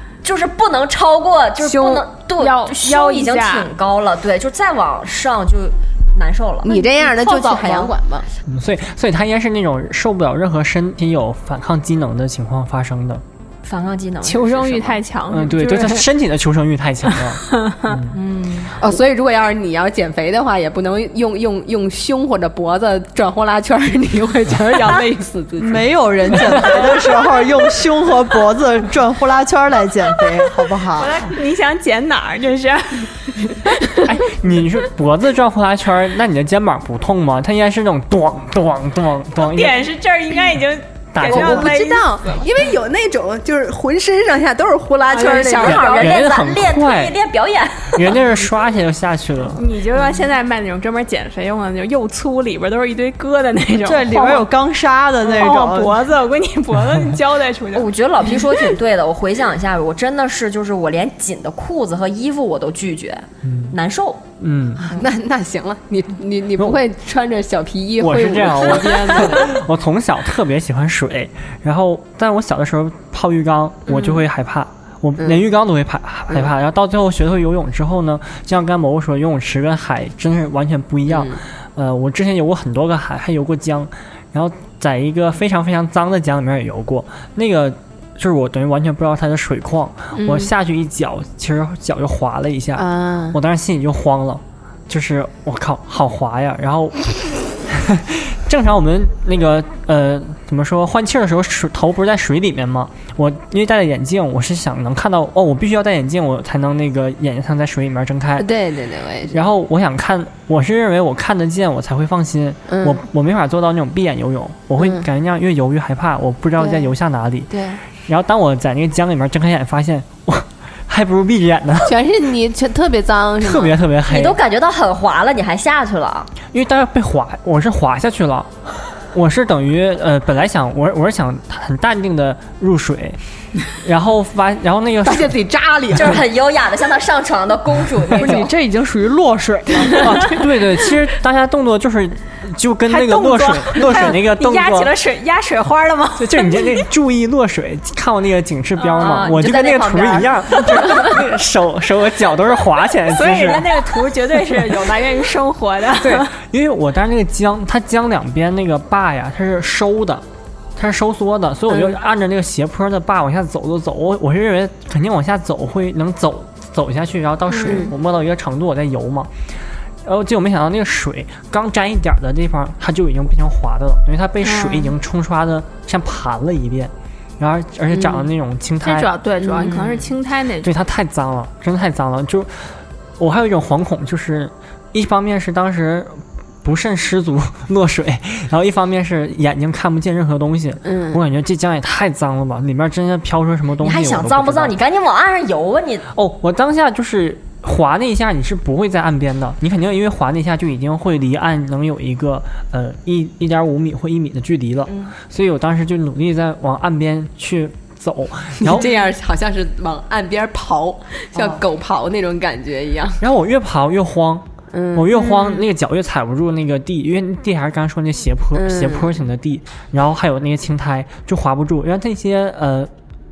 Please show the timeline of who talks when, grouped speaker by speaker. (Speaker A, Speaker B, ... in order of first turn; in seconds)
Speaker A: 0.2-8.0, 13.6-15.0, 18.1-18.8, 45.2-48.2, 57.7-64.3, 124.1-126.3, 135.9-138.5, 149.0-151.1, 193.8-196.1, 204.9-205.1
Speaker B: 1.6-3.7, 14.2-16.1, 17.4-18.0, 30.9-34.1, 39.4-42.5, 45.1-46.1, 49.5-54.5, 55.2-58.6, 142.9-146.8, 148.8-149.3, 153.1-156.3, 167.5-167.8, 174.4-174.9, 178.8-180.8
Speaker C: 6.6-8.2, 18.7-26.9, 41.2-45.8, 64.8-69.5, 81.1-81.4, 90.1-90.5, 92.7-93.4, 108.4-109.4, 112.7-113.0, 114.8-115.0, 116.6-116.9, 117.5-117.8, 121.8-123.8, 135.0-136.2, 161.7-161.9, 167.6-167.9, 177.9-178.3, 190.8-191.2, 208.6-213.2, 214.7-215.2, 218.5-219.2
Speaker D: 8.5-13.2, 15.3-18.2, 34.0-39.9, 41.1-41.7, 45.6-47.1, 47.9-49.6, 63.4-63.8, 64.4-64.9, 68.0-108.5, 109.3-117.5, 118.0-122.0, 123.4-124.4, 126.5-133.2, 133.7-135.3, 139.9-144.9, 146.2-153.9, 156.0-160.2, 160.8-169.3, 170.0-179.1, 180.6-194.7, 196.1-208.9, 213.2-222.9
Speaker E: 25.6-31.2, 53.8-56.0, 138.2-140.3